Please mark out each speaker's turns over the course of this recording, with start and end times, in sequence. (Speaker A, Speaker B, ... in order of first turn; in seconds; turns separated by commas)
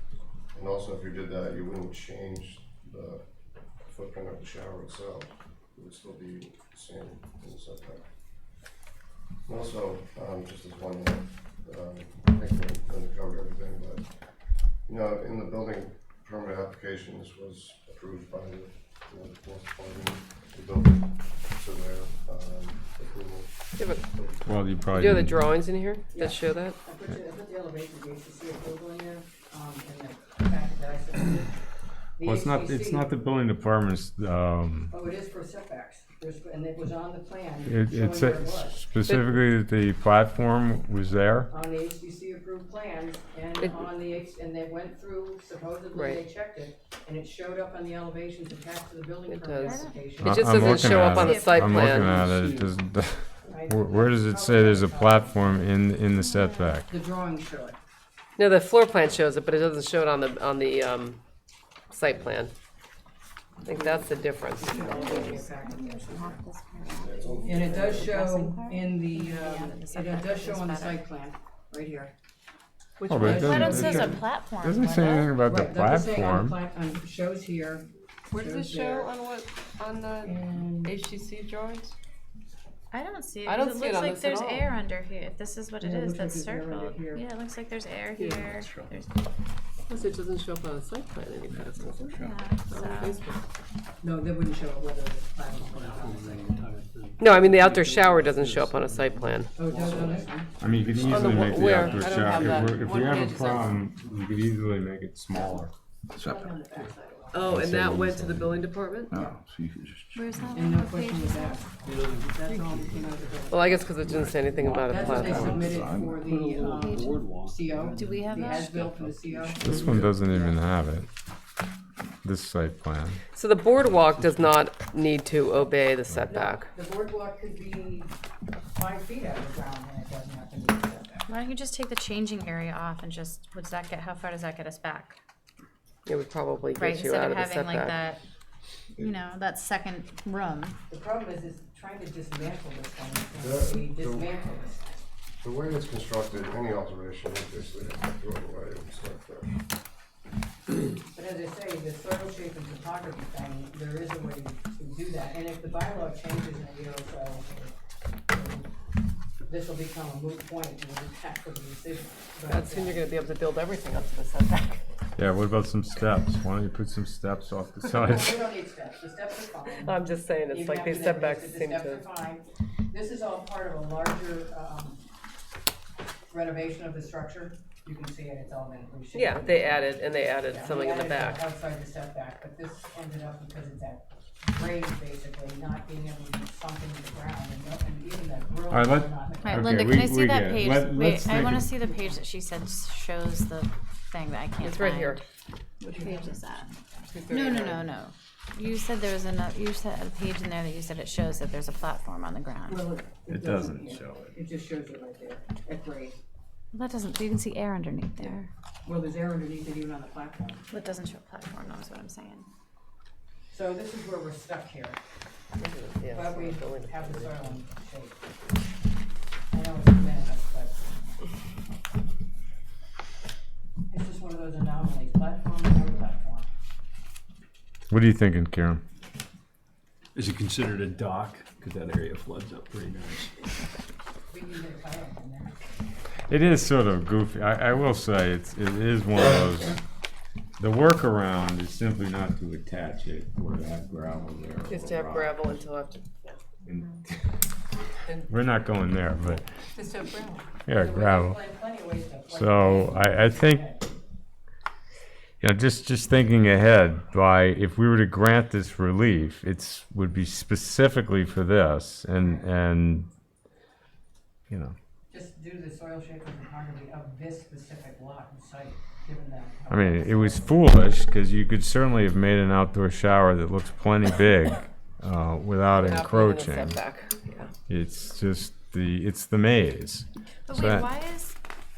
Speaker A: 0.5-8.1, Speaker A: 9.4-14.1, Speaker A: 14.8-24.5, Speaker B: 23.8-24.0, Speaker C: 24.4-25.4, Speaker B: 24.9-26.8, Speaker D: 26.1-31.5, Speaker D: 32.2-33.2, Speaker C: 32.2-34.9, Speaker D: 34.9-38.8, Speaker C: 37.6-41.5, Speaker B: 39.0-39.4, Speaker D: 41.5-50.5, Speaker B: 43.6-43.8, Speaker B: 45.9-46.2, Speaker B: 49.3-52.7, Speaker E: 49.6-51.9, Speaker C: 50.2-56.9, Speaker D: 53.5-55.6, Speaker E: 56.2-56.8, Speaker D: 56.9-57.8, Speaker B: 58.4-61.2, Speaker B: 61.9-62.5, Speaker B: 63.6-64.9, Speaker D: 63.7-66.4, Speaker A: 64.7-65.5, Speaker E: 64.9-71.0, Speaker A: 67.0-68.2, Speaker D: 67.4-72.1, Speaker B: 73.0-74.0, Speaker C: 73.1-76.6, Speaker D: 73.1-74.2, Speaker E: 73.3-75.4, Speaker D: 75.4-79.1, Speaker B: 78.3-81.9, Speaker D: 80.2-81.0, Speaker E: 82.9-89.2, Speaker B: 83.4-84.7, Speaker D: 85.8-87.2, Speaker B: 88.2-88.5, Speaker F: 88.5-88.9, Speaker B: 89.9-93.4, Speaker F: 91.5-92.5, Speaker E: 92.1-93.2, Speaker D: 94.0-96.6, Speaker F: 95.7-102.7, Speaker B: 97.2-99.5, Speaker D: 99.5-100.5, Speaker C: 100.6-105.7, Speaker B: 101.0-103.8, Speaker F: 106.1-106.8, Speaker D: 106.2-107.6, Speaker B: 107.3-109.2, Speaker F: 107.5-110.5, Speaker D: 109.1-109.4, Speaker E: 110.1-111.8, Speaker D: 110.5-114.0, Speaker F: 111.8-113.1, Speaker B: 113.5-115.6, Speaker F: 114.0-120.1, Speaker D: 114.8-120.6, Speaker E: 116.9-117.1, Speaker E: 117.9-118.8, Speaker C: 119.6-121.1, Speaker C: 122.2-123.2, Speaker B: 123.3-126.7, Speaker F: 124.2-124.5, Speaker D: 126.3-128.1, Speaker D: 128.7-131.3, Speaker E: 131.3-135.2, Speaker B: 136.1-138.0, Speaker E: 136.7-138.2, Speaker E: 138.9-140.8, Speaker D: 140.9-145.0, Speaker A: 143.4-144.4, Speaker A: 145.4-149.5, Speaker D: 151.1-157.7, Speaker D: 158.3-158.7, Speaker D: 159.4-163.1, Speaker B: 162.5-164.8, Speaker C: 165.2-168.5, Speaker D: 168.1-175.0, Speaker B: 169.8-172.1, Speaker D: 176.3-189.9, Speaker B: 179.1-181.4, Speaker C: 188.7-191.8, Speaker E: 189.4-195.2, Speaker B: 194.6-195.2, Speaker D: 195.8-196.4, Speaker E: 195.9-202.8, Speaker B: 197.1-197.9, Speaker D: 202.7-206.2, Speaker C: 203.3-204.3, Speaker E: 206.7-208.5, Speaker D: 208.2-210.7, Speaker E: 210.7-212.4, Speaker D: 213.5-215.0, Speaker B: 215.6-217.5, Speaker D: 216.1-218.2, Speaker D: 219.5-220.8, Speaker D: 223.9-226.5, Speaker C: 227.9-228.8, Speaker F: 230.1-233.5, Speaker D: 234.3-235.5, Speaker C: 236.3-239.8, Speaker C: 240.6-245.4, Speaker B: 244.7-246.4, Speaker C: 246.7-247.5, Speaker C: 248.3-249.4, Speaker D: 249.7-253.8, Speaker C: 250.7-251.4, Speaker C: 252.3-253.7, Speaker C: 255.4-263.1, Speaker C: 264.5-264.7, Speaker D: 265.1-270.7, Speaker C: 269.7-276.8, Speaker B: 275.8-277.5, Speaker C: 277.7-280.9, Speaker E: 280.5-281.3